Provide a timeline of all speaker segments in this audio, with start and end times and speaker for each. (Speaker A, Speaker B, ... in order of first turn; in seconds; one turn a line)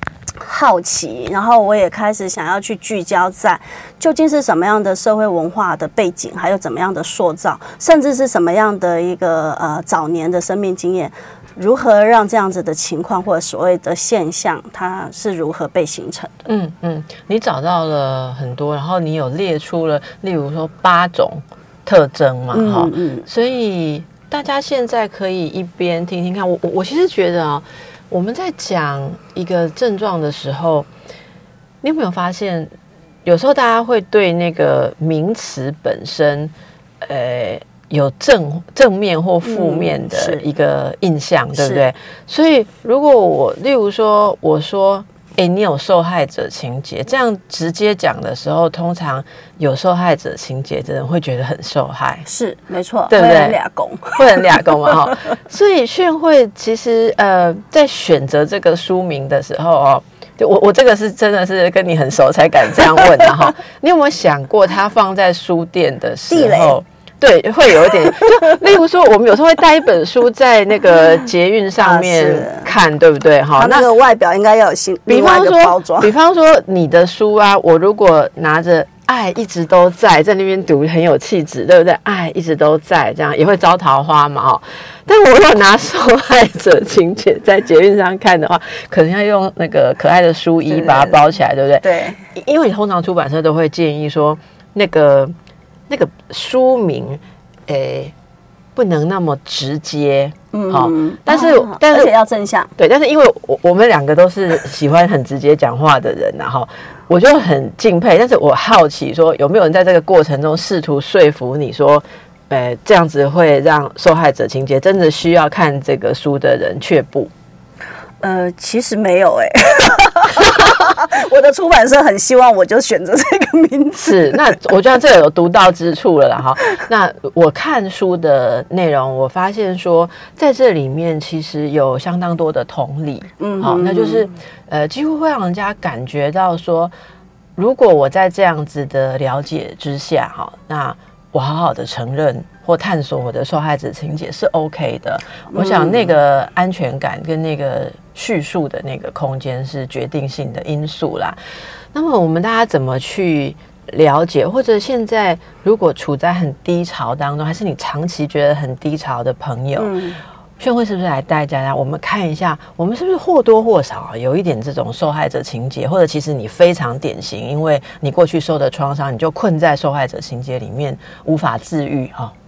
Speaker A: 0.4-16.5
Speaker B: 16.5-30.9
Speaker A: 22.5-23.3
Speaker B: 31.8-32.7
Speaker B: 33.2-52.3
Speaker A: 39.4-40.5
Speaker A: 41.5-41.9
Speaker A: 52.3-55.0
Speaker B: 53.1-53.6
Speaker B: 54.1-73.9
Speaker A: 66.3-66.8
Speaker A: 71.8-72.7
Speaker A: 73.6-76.1
Speaker B: 75.1-95.3
Speaker A: 90.7-91.2
Speaker A: 91.8-92.2
Speaker B: 95.9-98.1
Speaker B: 98.8-102.1
Speaker A: 100.5-102.7
Speaker B: 102.8-117.3
Speaker A: 118.2-124.4
Speaker B: 124.0-136.9
Speaker A: 133.4-134.3
Speaker B: 137.6-151.4
Speaker A: 145.5-146.1
Speaker B: 151.9-159.9
Speaker A: 159.8-160.2
Speaker B: 160.6-172.3